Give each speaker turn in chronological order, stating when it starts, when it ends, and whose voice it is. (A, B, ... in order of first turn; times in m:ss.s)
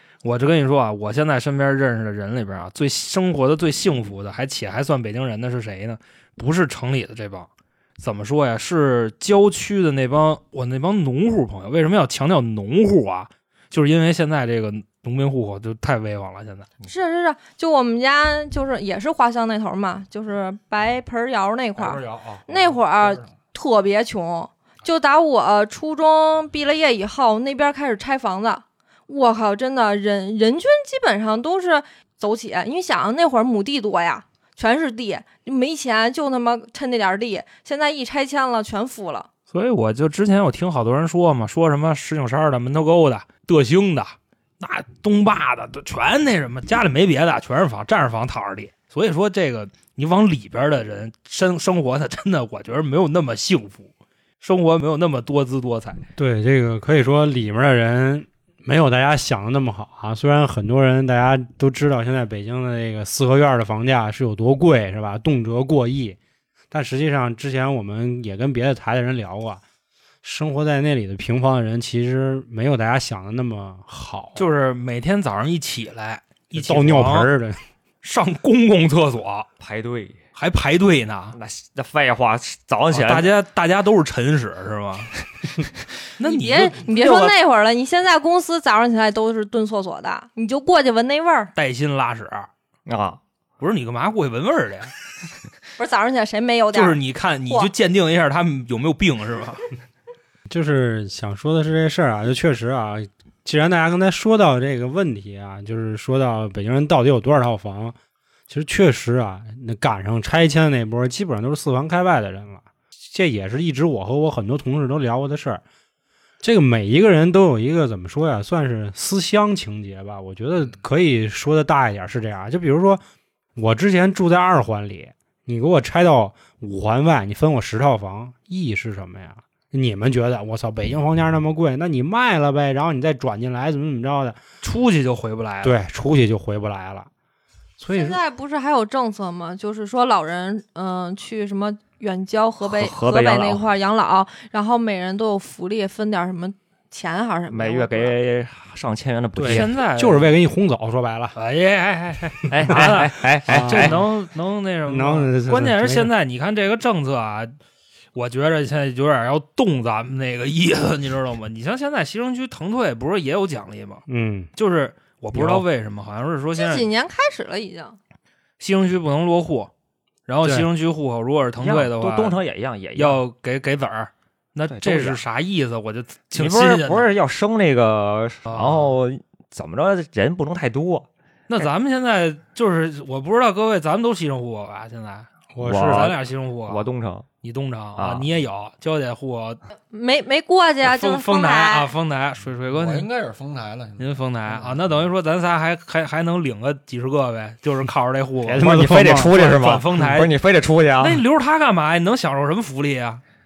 0:00.2-0:16.7 A
0:16.8-0:39.3 B
0:21.8-0:23.4 C
0:39.5-0:56.0 A
0:56.2-1:06.2 D
1:06.7-1:09.6 D
1:10.2-1:14.4 D
1:14.4-1:17.3 A
1:16.5-1:17.6 D
1:18.0-1:19.5 A
1:19.6-1:20.2 E
1:20.4-1:21.4 A
1:21.3-1:23.3 E
1:22.9-1:25.1 A
1:26.2-1:26.9 A
1:26.2-1:31.5 B
1:26.9-1:27.3 E
1:31.6-1:32.5 A
1:32.9-1:33.2 E
1:33.6-1:34.9 A
1:35.8-1:37.7 B
1:36.7-1:39.6 A
1:40.5-1:48.0 D
1:48.5-1:55.6 D
1:56.4-2:03.0 D
2:03.6-2:14.4 D
2:14.6-2:15.8 A
2:15.6-2:17.1 D
2:17.8-2:18.2 D
2:17.9-2:28.2 B
2:22.6-2:23.6 E
2:27.5-2:29.7 E
2:29.4-2:31.4 D
2:29.4-2:30.3 A
2:31.4-2:37.6 A
2:32.5-2:34.0 E
2:33.5-2:34.0 D
2:34.9-2:36.1 D
2:38.2-2:44.0 A
2:44.1-2:44.5 D
2:44.6-2:46.9 A
2:45.3-2:45.6 D
2:46.6-2:48.0 B
2:48.6-2:49.7 A
2:50.3-2:52.4 A
2:51.6-2:53.2 E
2:53.0-2:57.1 A
2:54.7-2:55.2 E
2:56.3-3:01.1 E
2:58.5-2:58.9 A
3:01.5-3:06.9 A
3:05.5-3:06.2 D
3:05.6-3:07.3 E
3:07.4-3:09.6 A
3:08.0-3:08.3 E
3:09.9-3:11.9 B
3:10.8-3:13.1 A
3:12.7-3:15.0 C
3:14.0-3:20.3 A
3:18.4-3:19.7 D
3:18.6-3:21.2 E
3:21.0-3:23.2 A